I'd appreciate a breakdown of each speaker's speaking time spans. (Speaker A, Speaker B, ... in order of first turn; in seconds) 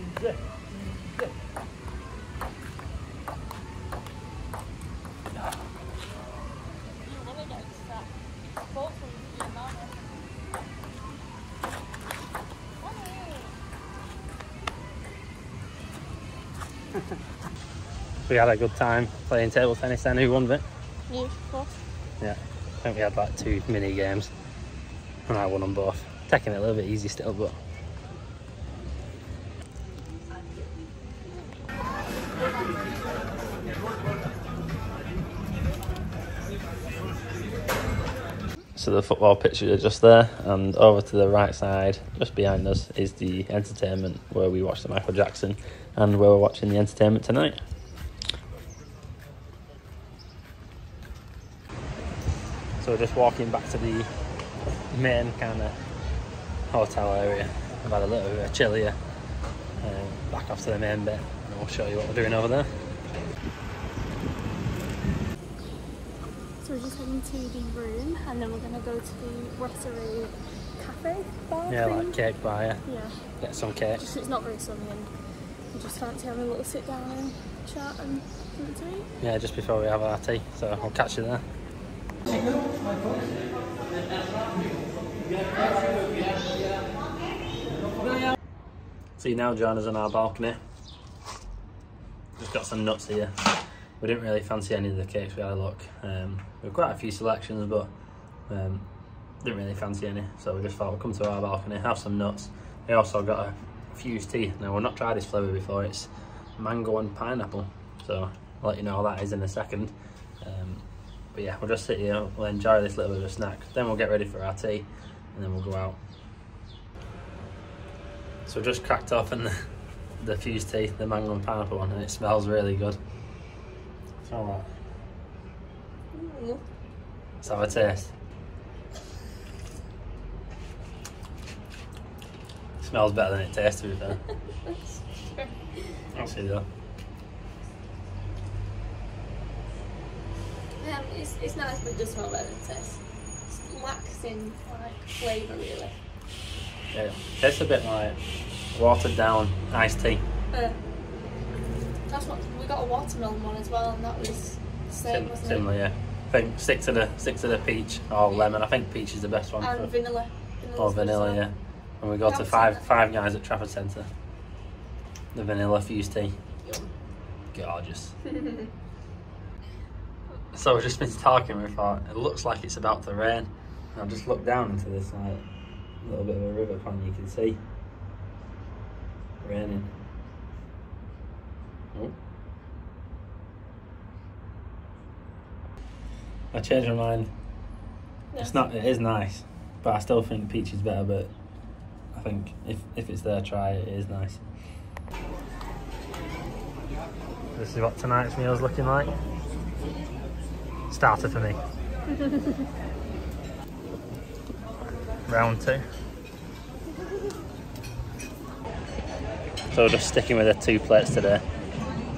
Speaker A: 18.3-20.6, 22.2-24.3, 25.3-27.6, 38.8-47.6, 52.8-54.1, 54.9-55.8, 56.7-59.0, 59.8-62.7, 71.7-72.8, 73.4-74.0, 79.2-81.5, 89.2-90.6, 92.4-97.9, 98.5-98.9, 99.4-116.0, 118.5-119.5, 120.2-123.0, 124.2-124.7, 127.4-128.1, 132.8-134.2, 136.1-136.7, 146.9-148.2, 148.7-150.3, 155.1-159.9, 160.8-164.1, 165.3-166.4, 167.5-168.2, 170.5-175.5, 176.0-177.6, 179.4-179.9, 186.5-187.3, 188.4-191.3, 192.1-194.4, 197.6-199.2, 200.9-201.6, 205.3-205.8, 209.7-211.4
Speaker B: 21.1-21.8, 66.6-72.2, 72.8-73.2, 74.0-75.1, 75.7-79.1, 126.1-126.6, 134.5-136.0, 140.8-145.9, 150.5-150.8, 152.1-155.7, 159.6-161.4, 162.3-162.9, 166.7-166.9, 168.2-168.7, 202.2-202.6